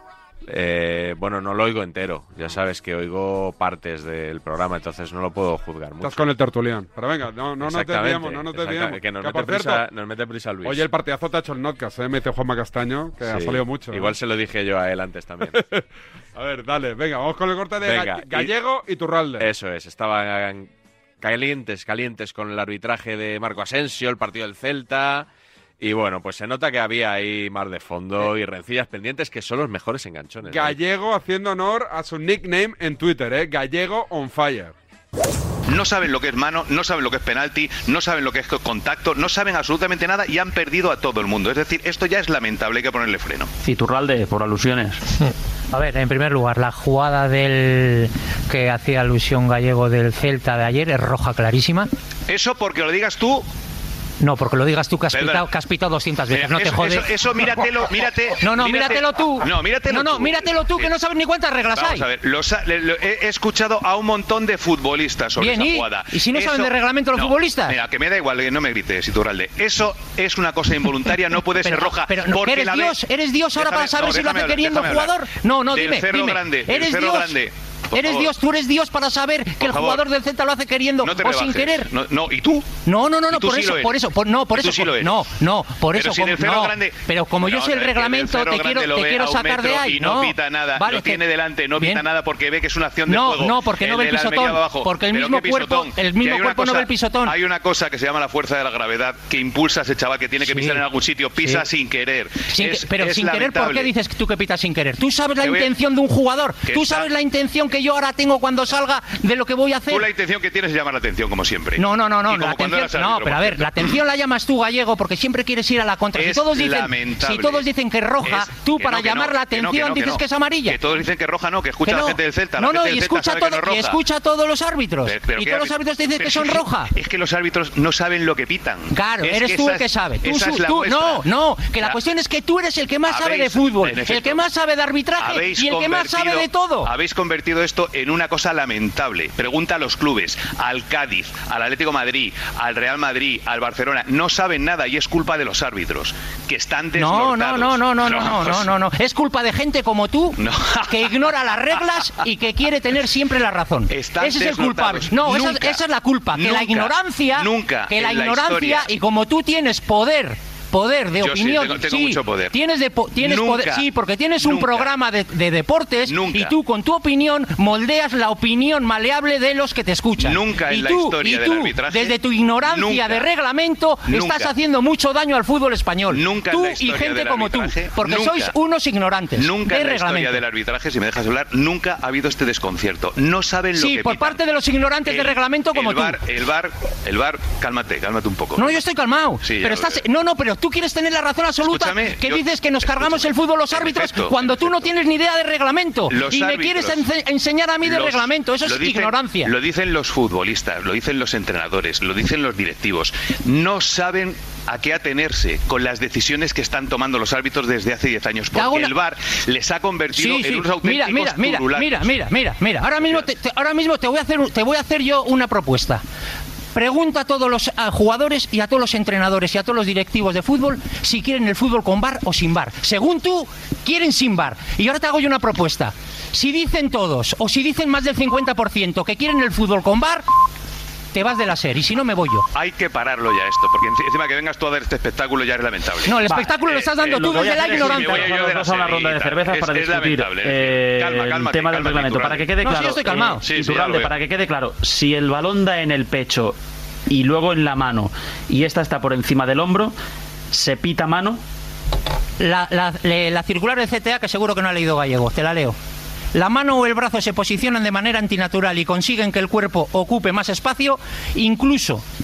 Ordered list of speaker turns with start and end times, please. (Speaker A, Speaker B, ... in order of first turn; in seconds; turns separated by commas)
Speaker A: 0.5-6.2, Speaker B: 6.0-9.8, Speaker A: 7.6-10.8, Speaker B: 10.6-14.1, Speaker A: 13.2-15.6, Speaker B: 15.5-15.8, Speaker B: 16.3-19.5, Speaker A: 17.8-18.5, Speaker A: 19.4-20.7, Speaker A: 21.2-25.3, Speaker A: 25.8-30.8, Speaker B: 30.4-34.7, Speaker C: 35.7-43.5, Speaker D: 43.6-45.0, Speaker E: 45.7-51.9, Speaker C: 52.3-53.5, Speaker E: 54.2-57.4, Speaker C: 55.1-55.5, Speaker C: 56.3-60.9, Speaker E: 58.4-62.0, Speaker C: 61.7-73.0, Speaker E: 65.4-67.7, Speaker E: 71.6-77.4, Speaker C: 73.5-78.3, Speaker E: 77.9-81.9, Speaker C: 79.6-80.0, Speaker C: 81.0-85.3, Speaker E: 82.8-91.2, Speaker C: 85.9-103.9, Speaker E: 91.8-92.0, Speaker E: 93.1-97.4, Speaker E: 100.4-100.8, Speaker E: 102.5-110.1, Speaker C: 105.4-105.7, Speaker C: 106.7-107.1, Speaker C: 109.9-113.9, Speaker E: 111.8-120.8, Speaker C: 116.1-117.7, Speaker C: 118.2-124.0, Speaker E: 121.8-126.9, Speaker C: 125.0-132.0, Speaker E: 128.9-136.9, Speaker C: 133.1-134.4, Speaker C: 135.2-148.7, Speaker E: 146.9-180.4, Speaker C: 150.4-151.9, Speaker C: 153.9-158.9, Speaker C: 161.2-162.6, Speaker C: 163.2-164.9, Speaker C: 166.1-166.5, Speaker C: 170.2-173.3, Speaker C: 174.1-174.5, Speaker C: 176.1-178.5, Speaker C: 179.3-184.4, Speaker E: 183.7-186.2, Speaker C: 185.1-188.8, Speaker E: 188.6-199.5, Speaker C: 189.4-190.0, Speaker C: 191.6-194.9, Speaker C: 196.1-197.1, Speaker C: 197.8-212.2, Speaker E: 208.5-208.9, Speaker E: 210.1-216.0, Speaker C: 213.0-213.3, Speaker E: 216.7-230.3, Speaker E: 231.1-232.5, Speaker C: 232.5-244.1, Speaker E: 236.0-238.5, Speaker D: 237.1-246.6, Speaker E: 242.5-243.6, Speaker D: 247.1-249.9, Speaker D: 250.5-251.4, Speaker E: 252.4-255.8, Speaker E: 256.3-262.0